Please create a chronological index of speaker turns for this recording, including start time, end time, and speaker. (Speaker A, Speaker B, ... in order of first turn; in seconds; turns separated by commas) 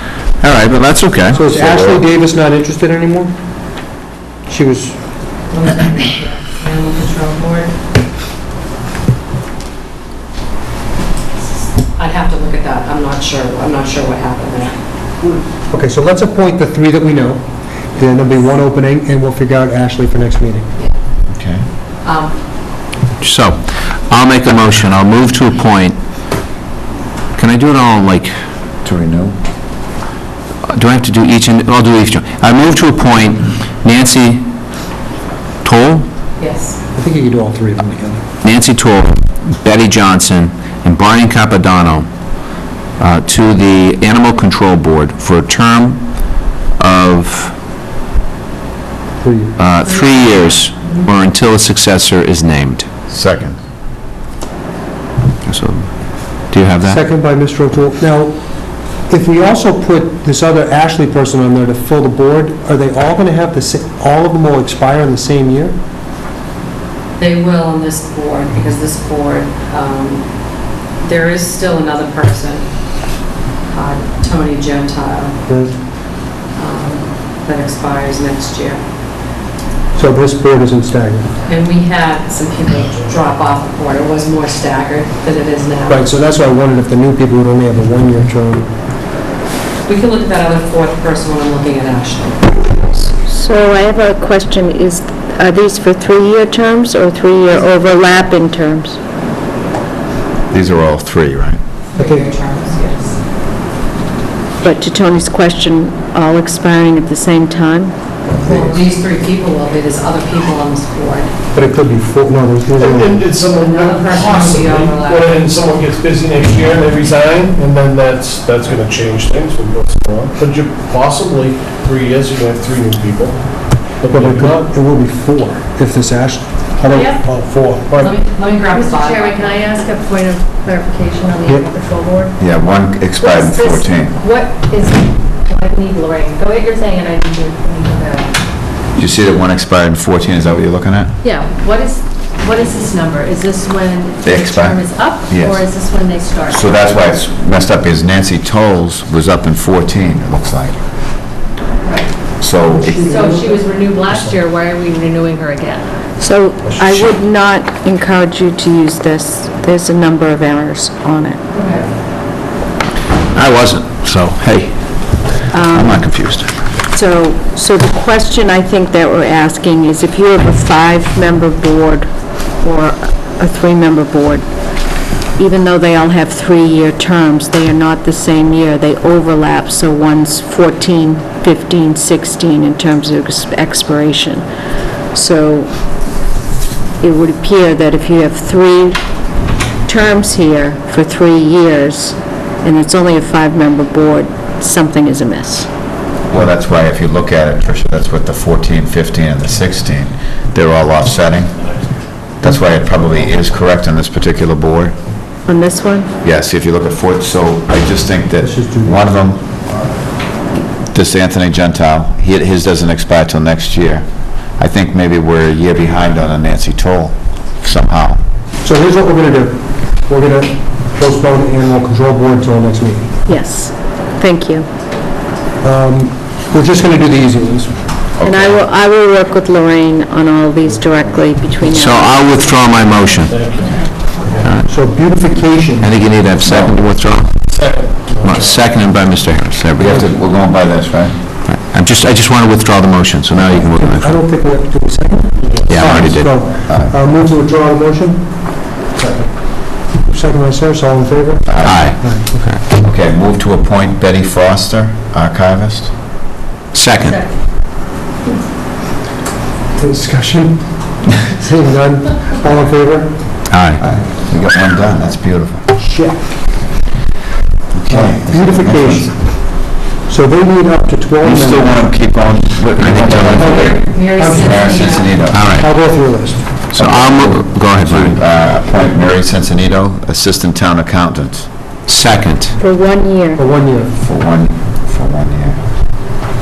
Speaker A: 0.4-1.8, Speaker B: 1.3-3.3, Speaker C: 1.6-2.0, Speaker B: 4.5-5.0, Speaker D: 5.5-7.7, Speaker D: 11.9-14.8, Speaker B: 15.7-17.4, Speaker B: 17.9-20.7, Speaker C: 21.3-21.6, Speaker D: 22.0-22.4, Speaker A: 23.2-26.0, Speaker A: 27.4-28.3, Speaker C: 28.8-29.4, Speaker A: 30.7-34.5, Speaker A: 35.6-36.0, Speaker D: 36.4-36.8, Speaker B: 36.9-38.2, Speaker A: 38.4-42.1, Speaker A: 43.0-46.1, Speaker A: 46.8-47.5, Speaker B: 49.2-49.5, Speaker A: 49.6-52.9, Speaker C: 53.1-53.6, Speaker A: 55.4-55.9, Speaker A: 56.5-57.0, Speaker B: 56.8-58.3, Speaker B: 59.1-65.8, Speaker D: 67.2-70.2, Speaker D: 71.0-72.6, Speaker D: 73.7-75.3, Speaker B: 75.5-75.7, Speaker D: 76.5-78.8, Speaker B: 79.9-81.3, Speaker D: 81.5-86.1, Speaker B: 85.9-88.7, Speaker D: 89.8-92.5, Speaker E: 93.2-99.0, Speaker C: 100.5-101.6, Speaker D: 101.9-103.2, Speaker B: 102.0-102.3, Speaker E: 104.6-107.9, Speaker C: 108.3-108.9, Speaker D: 108.4-111.3, Speaker B: 111.5-113.2, Speaker F: 112.7-123.4, Speaker D: 113.5-115.5, Speaker F: 124.0-124.6, Speaker B: 124.1-127.2, Speaker F: 127.2-128.2, Speaker D: 128.0-129.6, Speaker G: 128.7-132.3, Speaker C: 132.4-134.1, Speaker G: 133.2-138.3, Speaker C: 138.9-141.1, Speaker G: 141.2-146.6, Speaker C: 144.2-145.7, Speaker C: 146.5-150.8, Speaker G: 151.8-152.1, Speaker C: 152.4-153.2, Speaker B: 152.6-153.6, Speaker G: 153.2-155.8, Speaker E: 156.2-161.4, Speaker G: 161.5-161.8, Speaker A: 163.3-164.7, Speaker E: 165.5-166.1, Speaker A: 165.7-166.5, Speaker E: 166.9-172.1, Speaker E: 172.6-174.4, Speaker E: 175.4-184.4, Speaker E: 185.1-185.7, Speaker E: 187.0-189.0, Speaker E: 189.8-195.7, Speaker C: 196.3-201.7, Speaker C: 202.4-205.0, Speaker E: 205.4-206.1, Speaker C: 206.2-209.5, Speaker B: 208.4-209.1, Speaker C: 210.9-214.0, Speaker C: 214.6-218.2, Speaker B: 218.6-223.1, Speaker E: 223.2-224.7, Speaker B: 225.6-228.0, Speaker C: 228.2-228.6, Speaker E: 228.2-232.3, Speaker A: 231.6-233.4, Speaker F: 233.2-234.6, Speaker A: 234.4-234.7, Speaker B: 234.6-236.0, Speaker A: 235.8-237.3, Speaker F: 236.4-236.7, Speaker C: 236.5-236.7, Speaker F: 237.4-238.8, Speaker A: 238.2-240.0, Speaker C: 239.8-241.2, Speaker B: 239.8-240.1, Speaker A: 241.4-244.2, Speaker B: 243.6-252.4, Speaker A: 245.7-246.4, Speaker C: 246.7-247.0, Speaker C: 251.4-252.0, Speaker A: 251.6-252.6, Speaker C: 252.7-255.9, Speaker A: 256.7-257.2, Speaker G: 257.0-257.3, Speaker B: 259.8-264.1, Speaker A: 263.5-263.8, Speaker C: 264.2-265.7, Speaker B: 265.7-266.7, Speaker C: 267.7-269.1, Speaker B: 267.9-271.9, Speaker C: 271.2-275.5, Speaker A: 272.8-273.5, Speaker B: 273.3-274.6, Speaker D: 273.5-275.2, Speaker A: 275.2-275.7, Speaker B: 275.5-276.7, Speaker A: 276.7-278.2, Speaker C: 276.7-281.5, Speaker A: 281.9-282.5, Speaker E: 282.6-283.4, Speaker B: 283.4-283.9, Speaker C: 284.0-285.7